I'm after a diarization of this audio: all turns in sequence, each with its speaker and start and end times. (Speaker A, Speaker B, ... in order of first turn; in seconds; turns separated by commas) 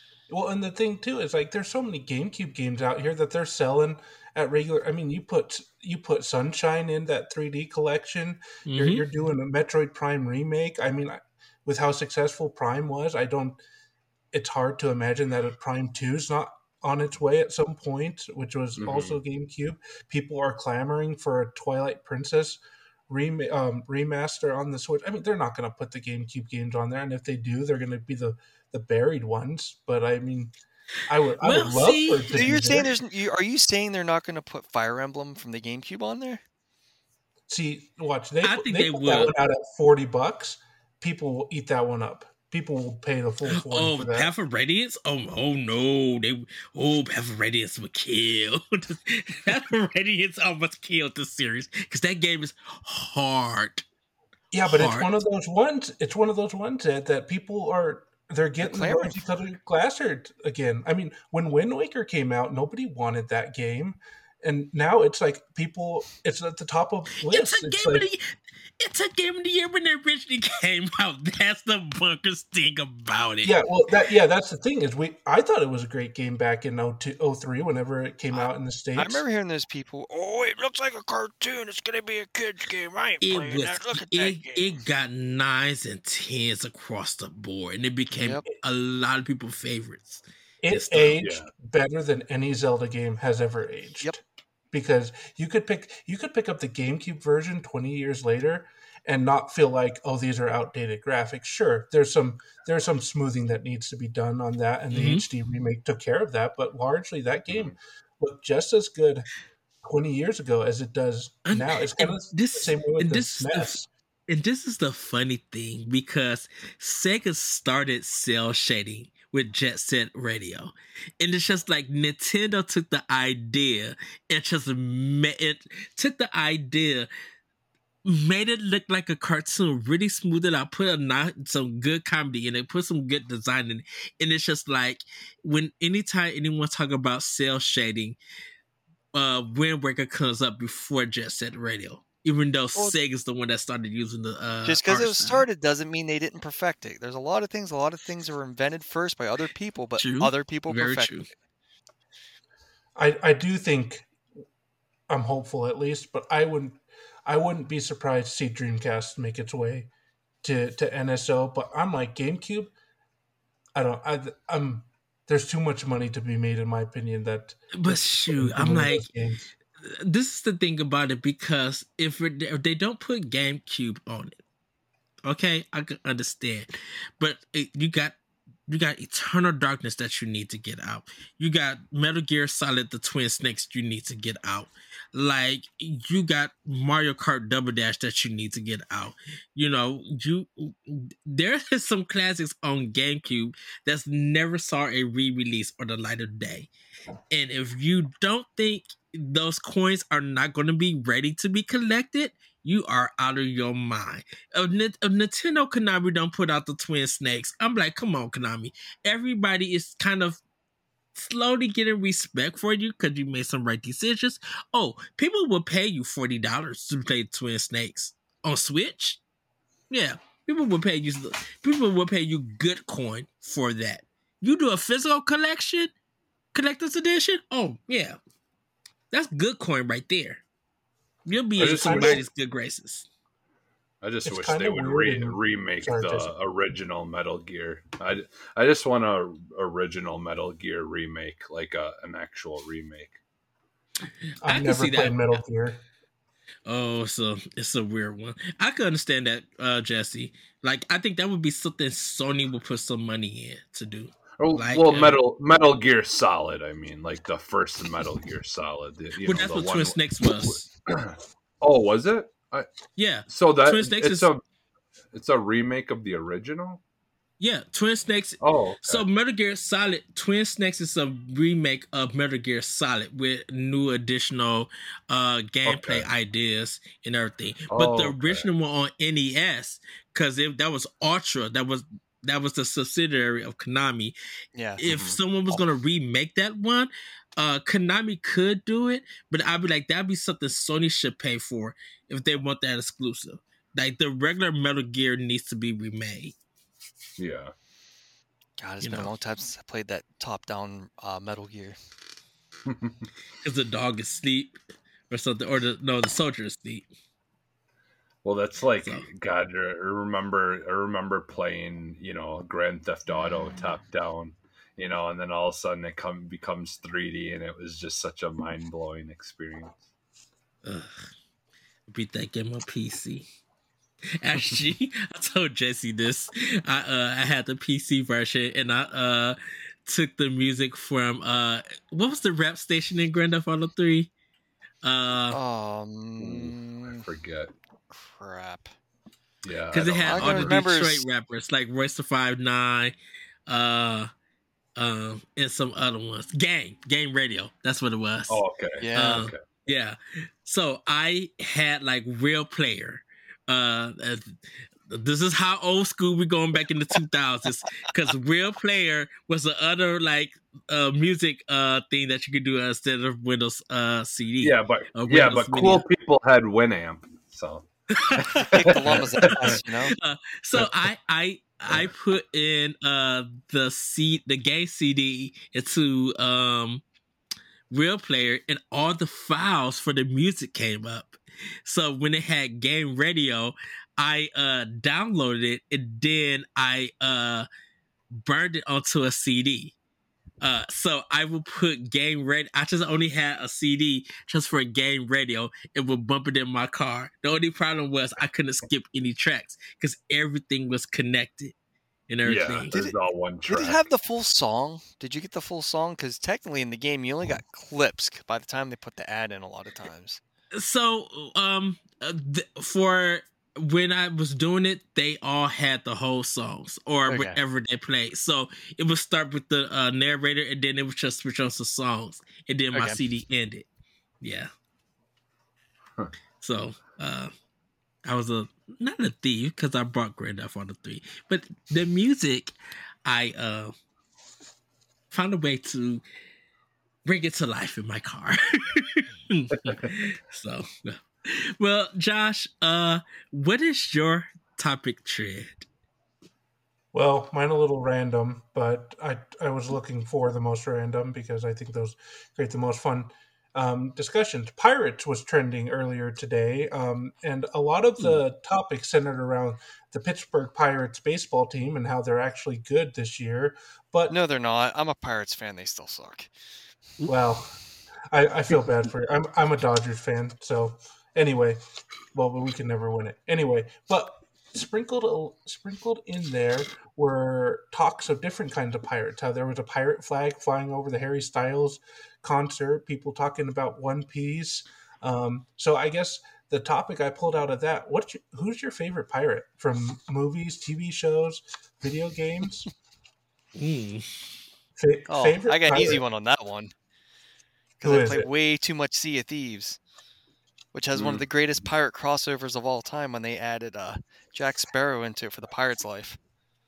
Speaker A: 0.3-13.6, Speaker B: 8.7-9.0, Speaker A: 14.3-30.5, Speaker C: 18.8-19.2, Speaker A: 31.1-32.9, Speaker B: 31.4-32.9, Speaker D: 32.3-36.4, Speaker A: 37.5-44.3, Speaker B: 38.4-39.3, Speaker B: 43.5-53.9, Speaker A: 54.5-68.1, Speaker B: 54.6-55.1, Speaker D: 58.6-59.2, Speaker B: 67.3-73.5, Speaker A: 73.4-79.2, Speaker D: 78.3-84.7, Speaker B: 83.2-91.2, Speaker D: 88.1-88.4, Speaker A: 90.6-109.3, Speaker C: 91.2-91.5, Speaker B: 104.9-105.3, Speaker C: 107.5-107.7, Speaker A: 109.8-113.9, Speaker B: 111.5-127.1, Speaker B: 128.1-138.2, Speaker B: 139.1-145.4, Speaker D: 144.7-151.3, Speaker B: 150.0-151.3, Speaker A: 153.0-154.1, Speaker A: 155.1-159.9, Speaker A: 160.4-162.7, Speaker A: 163.8-169.5, Speaker B: 167.7-169.1, Speaker B: 169.8-174.4, Speaker B: 175.2-178.2, Speaker B: 178.7-196.7, Speaker B: 197.3-210.4, Speaker B: 211.2-219.2, Speaker B: 219.9-225.9, Speaker B: 226.5-228.2, Speaker B: 229.1-230.4, Speaker B: 231.3-233.1, Speaker A: 231.6-232.2, Speaker C: 231.6-232.2, Speaker C: 234.0-243.2, Speaker A: 234.2-236.3, Speaker B: 244.4-245.4, Speaker A: 244.4-245.8, Speaker B: 246.7-255.2, Speaker C: 254.4-262.7, Speaker B: 259.2-260.6, Speaker B: 263.0-264.3, Speaker C: 263.3-264.4, Speaker C: 265.1-266.8, Speaker B: 267.4-284.1, Speaker C: 268.4-269.1, Speaker C: 275.7-276.1, Speaker C: 277.7-278.5, Speaker D: 284.6-284.8, Speaker B: 284.8-296.4, Speaker C: 284.9-285.2, Speaker C: 297.2-297.5, Speaker D: 298.6-301.8, Speaker B: 298.8-299.1, Speaker C: 302.7-303.1, Speaker B: 303.4-304.6, Speaker B: 305.1-306.9, Speaker C: 308.2-319.8, Speaker B: 308.8-309.1, Speaker B: 320.6-321.1, Speaker B: 321.9-323.3, Speaker B: 324.2-334.1, Speaker B: 334.8-335.4, Speaker D: 335.3-337.0, Speaker C: 336.2-337.5, Speaker D: 337.9-338.7, Speaker C: 339.4-340.6, Speaker B: 339.7-342.9, Speaker D: 340.1-341.1, Speaker B: 343.5-344.1, Speaker B: 344.8-348.4, Speaker C: 348.3-349.4, Speaker D: 348.8-349.3, Speaker B: 348.9-365.8, Speaker C: 364.4-369.6, Speaker B: 368.0-368.5, Speaker D: 368.5-369.9, Speaker B: 369.1-376.8, Speaker B: 377.7-387.5, Speaker B: 388.1-389.8, Speaker B: 390.4-401.5, Speaker B: 402.1-402.7, Speaker C: 402.2-403.8, Speaker D: 403.5-410.2, Speaker B: 410.6-423.7, Speaker D: 417.1-417.4, Speaker D: 422.7-423.0, Speaker B: 424.2-424.5, Speaker B: 426.4-427.3, Speaker B: 428.1-432.5, Speaker B: 433.1-433.7, Speaker B: 435.1-436.0, Speaker B: 437.1-445.7, Speaker A: 446.9-464.1, Speaker D: 464.1-466.3, Speaker A: 467.1-467.6, Speaker A: 468.1-471.6, Speaker A: 472.1-492.7, Speaker B: 493.6-494.3, Speaker A: 494.8-496.0, Speaker D: 495.1-496.7, Speaker D: 497.8-499.8, Speaker A: 497.8-498.3, Speaker D: 500.7-506.2, Speaker C: 500.9-501.2